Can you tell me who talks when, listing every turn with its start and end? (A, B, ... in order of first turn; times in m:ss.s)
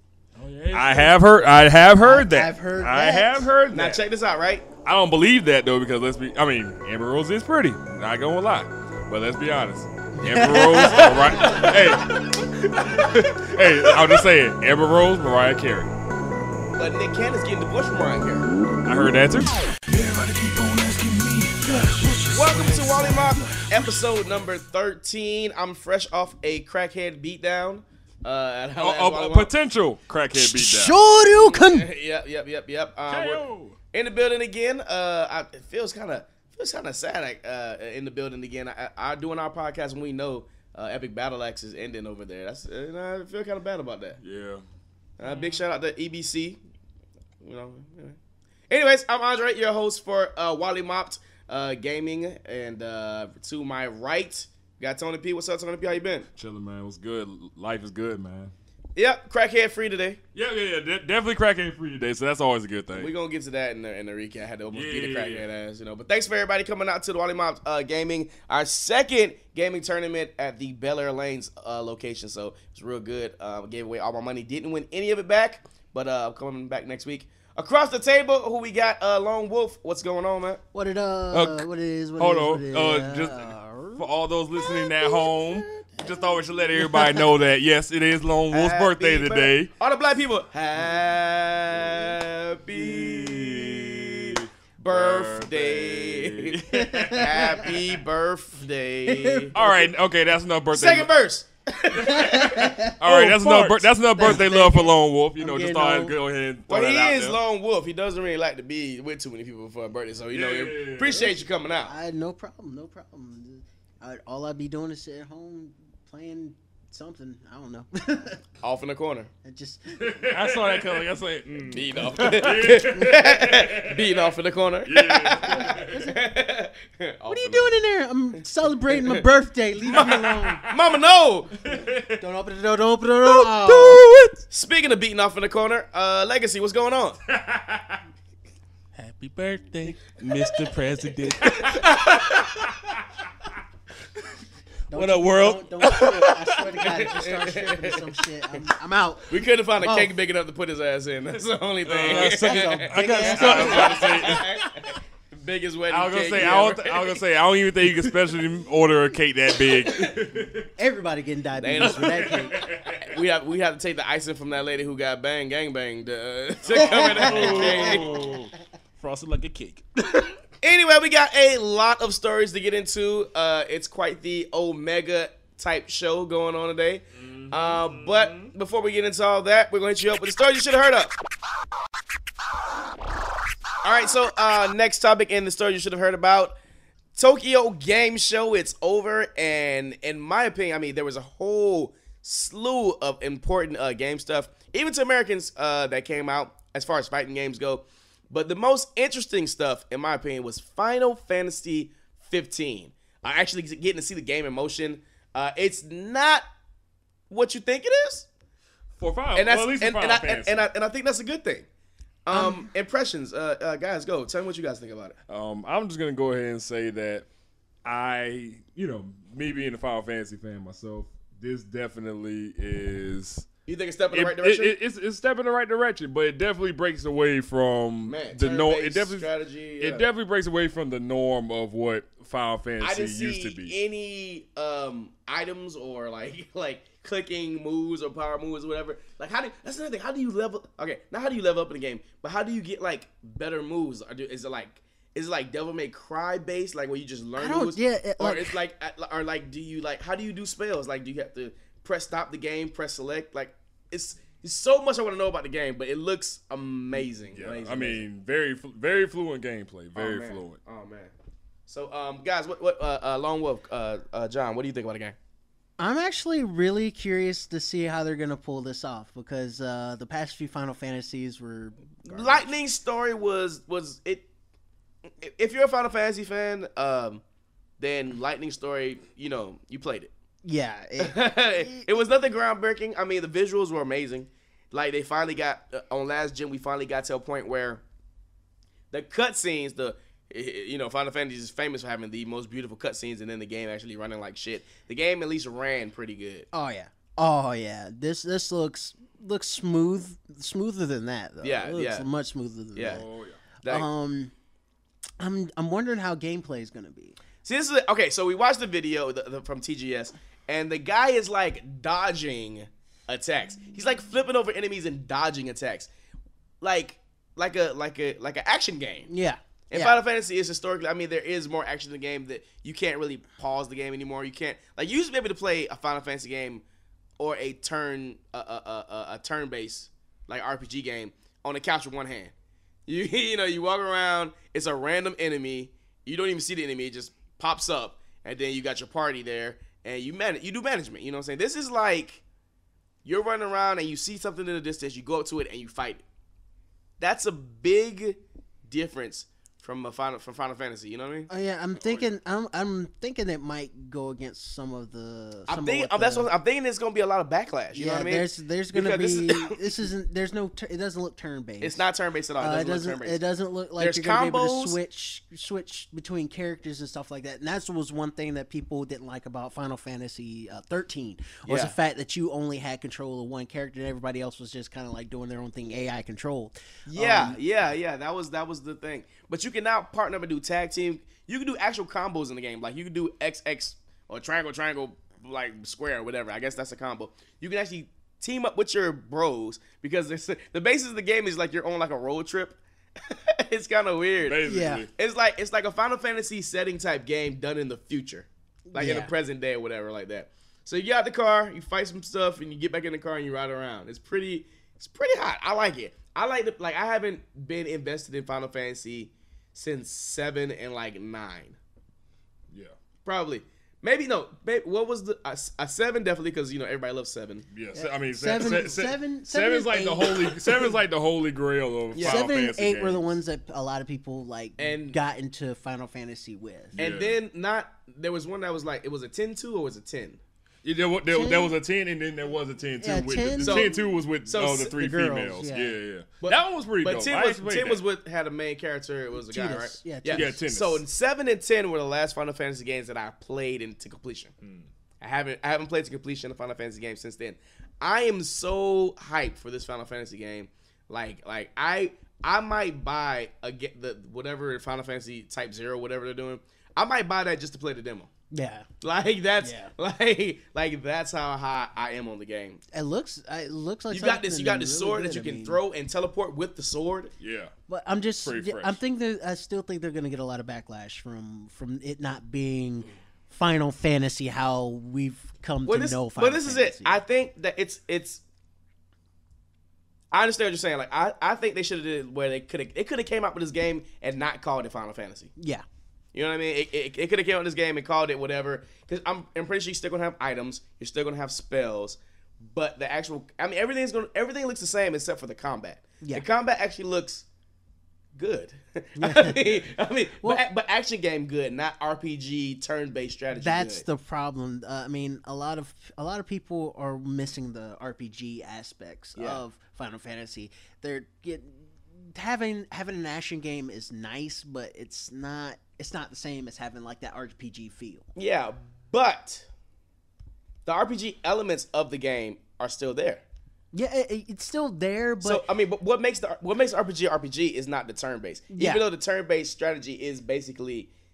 0:00.4-0:01.1 A
0:00.7-0:04.0 B
0:02.0-0:03.4 C
0:03.7-0:04.6 D
0:04.8-0:12.3 B
0:10.1-0:11.7 C
0:12.8-0:15.9 B
0:16.8-0:18.5 D
0:18.8-0:19.5 B
0:19.9-0:23.8 A
0:22.3-0:29.5 D
0:28.8-0:31.0 B
0:30.3-0:31.9 C
0:31.3-0:44.2 D
0:33.1-0:33.8 A
0:44.2-0:44.6 B
0:45.2-0:46.6 D
0:47.4-0:48.2 D
0:48.7-0:56.3 D
0:56.3-0:58.5 B
0:59.0-1:00.2 D
1:00.3-1:03.1 B
1:03.0-1:20.6 D
1:04.7-1:05.4 B
1:20.7-1:27.2 C
1:21.3-1:21.7 B
1:22.2-1:29.7 B
1:28.5-1:39.5 D
1:32.7-1:37.7 B
1:36.7-1:37.6 C
1:39.0-1:39.9 C
1:39.5-1:41.1 B
1:40.7-1:42.8 D
1:41.9-1:43.0 C
1:43.0-1:47.4 B
1:43.0-1:43.9 A
1:44.2-1:46.1 C
1:46.7-1:51.9 D
1:50.3-1:51.4 B
1:51.8-1:58.4 C
1:58.6-1:59.3 D
1:59.4-2:00.3 C
1:59.9-2:00.8 B
2:00.2-2:02.4 A
2:01.7-2:07.7 D
2:02.0-2:04.1 B
2:04.8-2:06.0 B
2:05.4-2:06.2 C
2:07.3-2:10.7 C
2:09.8-2:10.7 B
2:09.9-2:11.5 D
2:11.6-2:12.2 B
2:12.2-2:14.1 C
2:13.6-2:14.0 B
2:13.9-2:14.3 A
2:14.5-2:17.2 D
2:17.3-2:18.0 B
2:18.9-2:22.7 A
2:21.4-2:21.8 B
2:24.9-2:30.1 C
2:24.9-2:26.8 A
2:27.0-2:28.0 D
2:29.3-2:37.2 D
2:31.9-2:32.3 B
2:31.9-2:34.4 A
2:32.1-2:34.0 C
2:33.1-2:34.5 B
2:35.9-2:40.7 B
2:37.9-2:38.3 D
2:39.8-2:40.1 D
2:40.8-2:42.6 C
2:41.6-2:48.2 D
2:41.8-2:43.2 B
2:46.6-2:48.5 B
2:46.7-2:48.0 C
2:47.4-2:47.9 A
2:49.0-2:50.3 A
2:50.6-3:01.2 D
2:57.2-2:58.5 B
3:03.8-3:06.6 D
3:07.2-3:26.4 D
3:27.3-3:28.3 D
3:29.0-3:30.7 B
3:29.3-3:31.6 D
3:32.2-3:35.2 D
3:32.3-3:32.7 C
3:35.3-3:37.2 B
3:37.8-3:43.5 B
3:43.6-3:44.8 D
3:44.1-3:49.3 B
3:48.0-3:50.1 D
3:49.8-3:53.7 B
3:52.8-4:18.0 D
4:07.4-4:08.6 C
4:17.3-4:20.6 B
4:20.0-4:21.1 D
4:21.7-4:25.2 D
4:25.8-4:32.5 C
4:32.0-4:34.2 D
4:35.2-4:37.2 D
4:37.8-4:40.1 D
4:40.4-4:41.9 C
4:41.0-4:47.8 D
4:48.9-4:56.5 D
4:56.5-5:03.0 C
5:01.4-5:02.0 D
5:02.7-5:03.0 D
5:02.8-5:03.4 B
5:03.6-5:03.9 D
5:03.6-5:04.3 C
5:05.2-5:07.2 C
5:07.4-5:15.9 D
5:16.6-5:19.1 D
5:19.1-5:20.0 C
5:19.7-5:26.6 D
5:27.2-5:32.3 D
5:32.9-5:42.2 D
5:43.0-5:46.0 D
5:47.0-5:51.3 D
5:51.3-5:56.3 C
5:55.5-5:59.6 D
5:57.7-6:01.8 C
6:01.6-6:03.2 D
6:02.4-6:17.4 C
6:03.8-6:04.8 D
6:11.4-6:11.7 D
6:16.9-6:34.4 D
6:34.2-6:34.9 B
6:34.4-6:34.9 C
6:35.0-6:51.6 D
6:38.7-6:39.1 C
6:53.0-6:57.4 D
6:57.5-7:03.1 B
6:57.7-7:00.8 C
7:01.9-7:02.2 D
7:02.0-7:06.8 C
7:04.6-7:05.0 D
7:06.7-7:07.2 B
7:06.8-7:10.2 D
7:10.6-7:17.8 B
7:11.1-7:11.5 C
7:12.8-7:13.7 C
7:13.4-7:14.8 D
7:14.7-7:15.8 C
7:16.2-7:24.3 D
7:19.1-7:20.4 C
7:20.1-7:20.8 B
7:25.0-7:38.1 D
7:38.3-7:38.7 C
7:38.8-7:42.6 D
7:39.4-7:39.7 C
7:42.7-7:45.6 C
7:43.9-7:47.1 D
7:47.2-7:47.5 B
7:47.7-7:57.0 C
7:48.2-7:48.8 B
7:55.6-7:58.2 D
8:00.1-8:05.3 D
8:05.4-8:05.6 C
8:06.1-8:17.2 D
8:18.1-8:23.8 D
8:19.0-8:19.4 C
8:23.4-8:38.1 C
8:29.1-8:29.4 D
8:38.1-8:39.5 D
8:40.6-8:43.2 D
8:43.7-8:45.4 C
8:45.2-8:50.9 D
8:48.5-8:48.8 C